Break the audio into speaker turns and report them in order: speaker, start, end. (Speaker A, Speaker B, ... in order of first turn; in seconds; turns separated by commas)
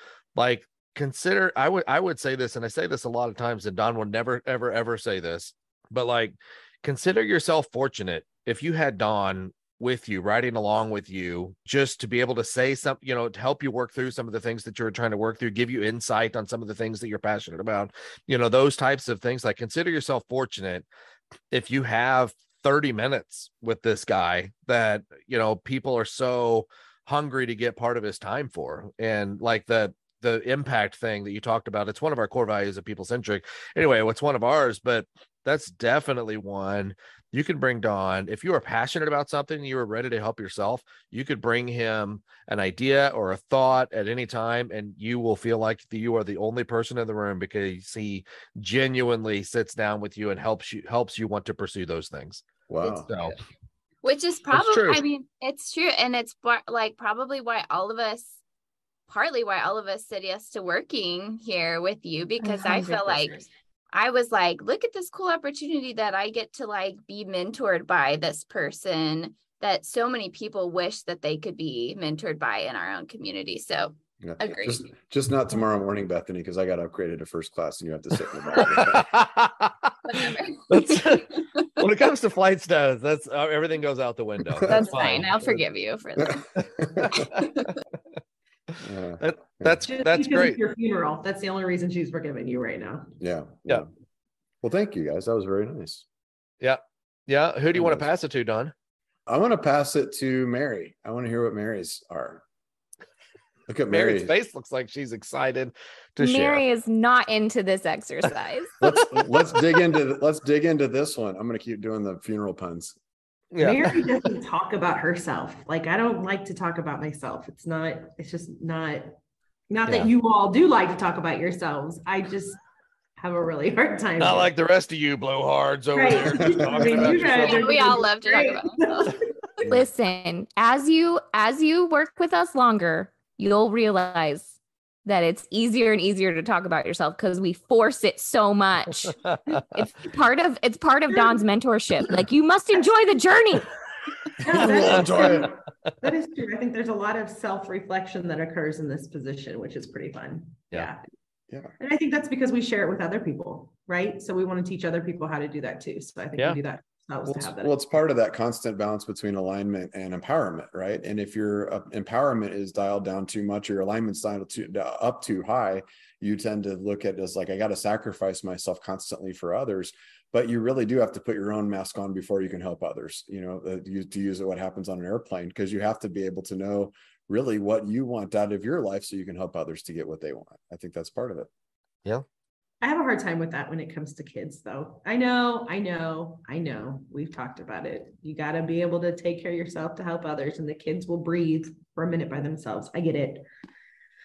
Speaker A: 0.3-20.9, Speaker A: 21.5-52.4, Speaker B: 52.7-53.1, Speaker C: 52.8-53.3, Speaker A: 53.1-53.4, Speaker C: 54.0-58.4, Speaker A: 54.5-55.0, Speaker C: 59.1-74.9, Speaker D: 62.4-63.4, Speaker B: 74.2-79.2, Speaker A: 78.7-85.3, Speaker C: 80.0-81.8, Speaker B: 84.6-84.8, Speaker C: 84.6-86.5, Speaker B: 86.2-87.3, Speaker A: 86.6-87.5, Speaker C: 87.2-87.8, Speaker B: 88.8-89.8, Speaker A: 89.2-90.6, Speaker E: 89.8-93.1, Speaker B: 93.2-93.9, Speaker B: 94.6-96.0, Speaker A: 96.6-98.7, Speaker B: 97.7-98.1, Speaker B: 99.3-102.4, Speaker B: 103.7-104.3, Speaker A: 103.9-106.6, Speaker D: 106.2-108.7, Speaker B: 108.8-113.0, Speaker A: 108.8-109.3, Speaker A: 113.5-114.1, Speaker E: 113.6-119.2, Speaker E: 119.7-122.6, Speaker E: 123.2-124.5, Speaker A: 124.2-127.7, Speaker E: 125.9-129.3, Speaker B: 126.5-127.2, Speaker C: 127.3-129.2, Speaker B: 129.6-129.9, Speaker D: 129.6-139.2, Speaker A: 139.3-139.6, Speaker D: 139.7-143.7, Speaker B: 144.4-145.6, Speaker E: 144.4-151.0, Speaker A: 144.5-145.4, Speaker E: 151.8-157.9, Speaker B: 157.2-181.5, Speaker E: 182.8-193.4